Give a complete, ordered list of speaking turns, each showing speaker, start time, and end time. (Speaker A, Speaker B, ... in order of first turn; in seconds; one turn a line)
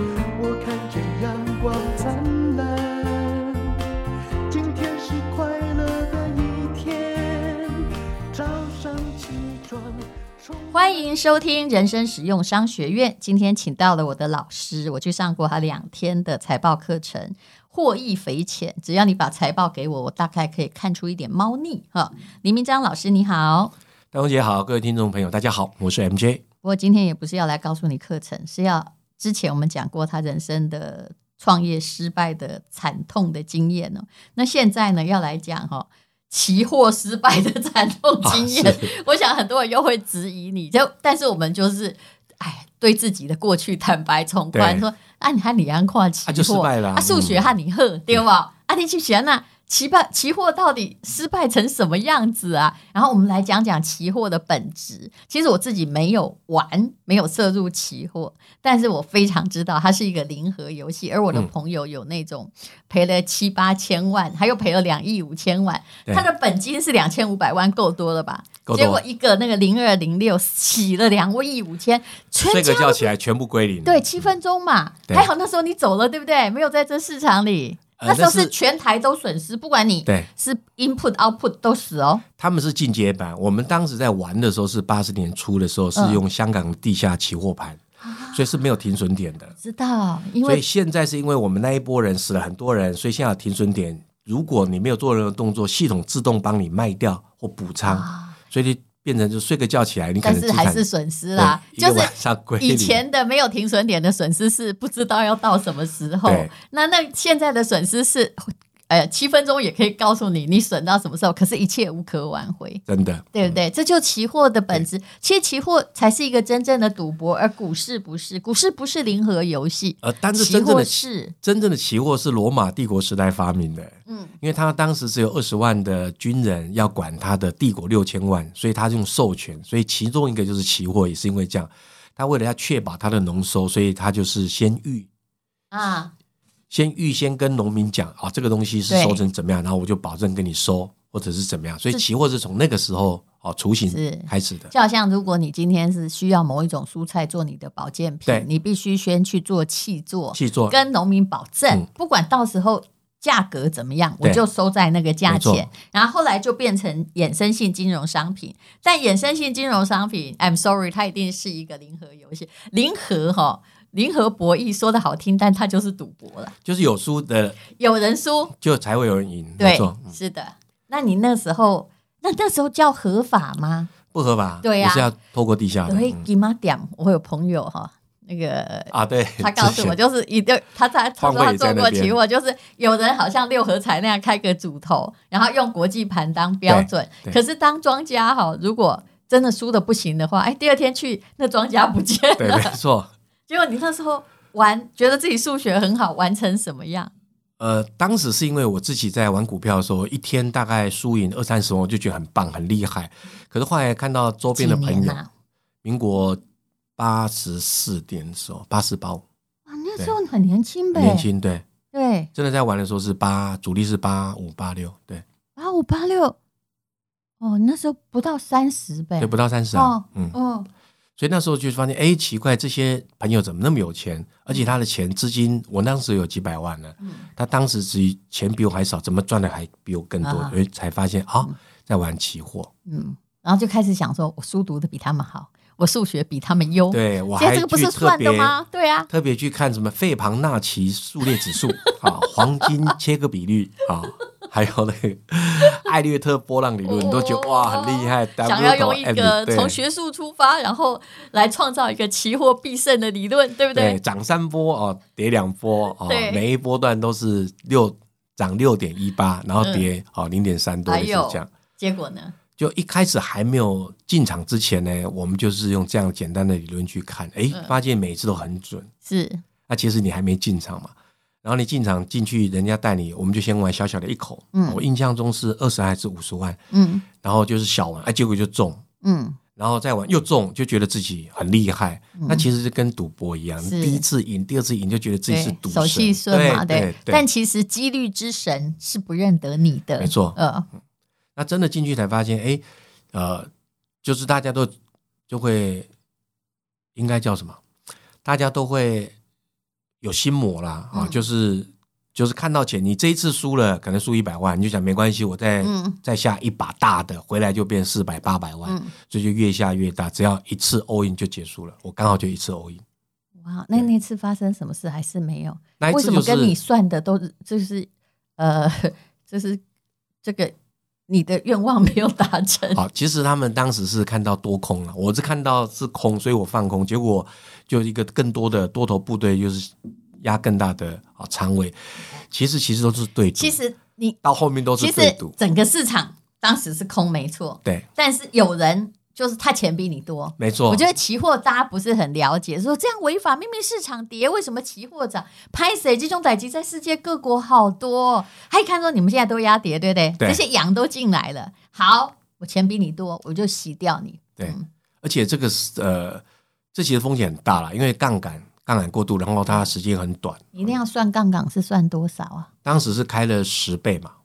Speaker A: 0.3-3.8
Speaker A: 4.5-10.8
Speaker B: 10.7-23.7
Speaker C: 24.1-26.4
Speaker B: 26.6-73.1
Speaker C: 38.2-38.9
Speaker C: 44.5-44.9
Speaker C: 46.2-47.5
Speaker C: 68.7-69.0
Speaker C: 72.4-74.1
Speaker B: 73.8-82.2
Speaker C: 78.0-78.5
Speaker C: 82.4-87.8
Speaker B: 86.0-86.2
Speaker B: 88.0-88.6
Speaker C: 88.3-89.5
Speaker B: 89.6-90.6
Speaker C: 90.4-103.0
Speaker B: 97.8-98.4
Speaker B: 100.2-121.3
Speaker C: 106.2-106.5
Speaker C: 112.9-113.6
Speaker C: 120.0-135.1
Speaker B: 124.1-124.3
Speaker B: 135.7-136.1
Speaker C: 136.7-144.7
Speaker B: 138.9-139.2
Speaker B: 143.9-166.5
Speaker C: 150.3-150.8
Speaker C: 155.3-155.7
Speaker C: 166.6-167.6
Speaker B: 167.7-168.5
Speaker C: 168.6-170.2
Speaker B: 169.6-173.9
Speaker C: 174.1-176.2
Speaker B: 174.6-175.1
Speaker B: 175.8-192.7
Speaker C: 178.9-180.0
Speaker C: 181.2-182.2
Speaker C: 186.7-187.4
Speaker C: 192.4-193.1
Speaker B: 193.5-197.1
Speaker C: 197.6-205.2
Speaker B: 204.5-205.3
Speaker C: 205.8-206.4
Speaker C: 207.0-209.2
Speaker B: 209.7-211.3
Speaker C: 210.9-211.6
Speaker B: 211.9-212.3
Speaker C: 212.3-215.2
Speaker B: 215.6-216.4
Speaker B: 217.4-220.7
Speaker C: 219.2-220.4
Speaker C: 221.2-232.7
Speaker B: 227.0-227.3
Speaker B: 230.2-230.6
Speaker B: 232.9-239.1
Speaker C: 236.9-238.6
Speaker C: 239.1-249.8
Speaker B: 241.5-241.9
Speaker B: 246.8-254.0
Speaker C: 253.7-261.5
Speaker B: 256.0-256.4
Speaker B: 260.9-262.4
Speaker C: 262.6-268.9
Speaker B: 269.0-269.4
Speaker C: 269.7-276.6
Speaker B: 274.5-274.8
Speaker B: 276.7-277.0
Speaker C: 277.2-278.8
Speaker B: 279.0-279.4
Speaker C: 279.6-287.2
Speaker B: 282.2-282.5
Speaker B: 283.6-284.0
Speaker B: 285.3-290.7
Speaker C: 290.0-290.4
Speaker C: 291.4-293.5
Speaker C: 294.0-294.7
Speaker C: 295.3-295.9
Speaker C: 296.9-297.6
Speaker C: 298.2-299.1
Speaker C: 300.0-312.8
Speaker B: 300.9-301.2
Speaker B: 305.6-306.0
Speaker B: 308.6-308.9
Speaker B: 313.4-319.6
Speaker C: 315.8-316.6
Speaker B: 320.2-320.5
Speaker B: 321.1-322.8
Speaker C: 322.7-333.6
Speaker B: 333.3-334.2
Speaker C: 334.2-335.3
Speaker B: 334.8-354.7
Speaker C: 340.4-340.9
Speaker C: 354.4-356.2
Speaker C: 356.7-360.8
Speaker B: 360.5-362.5
Speaker C: 362.6-364.1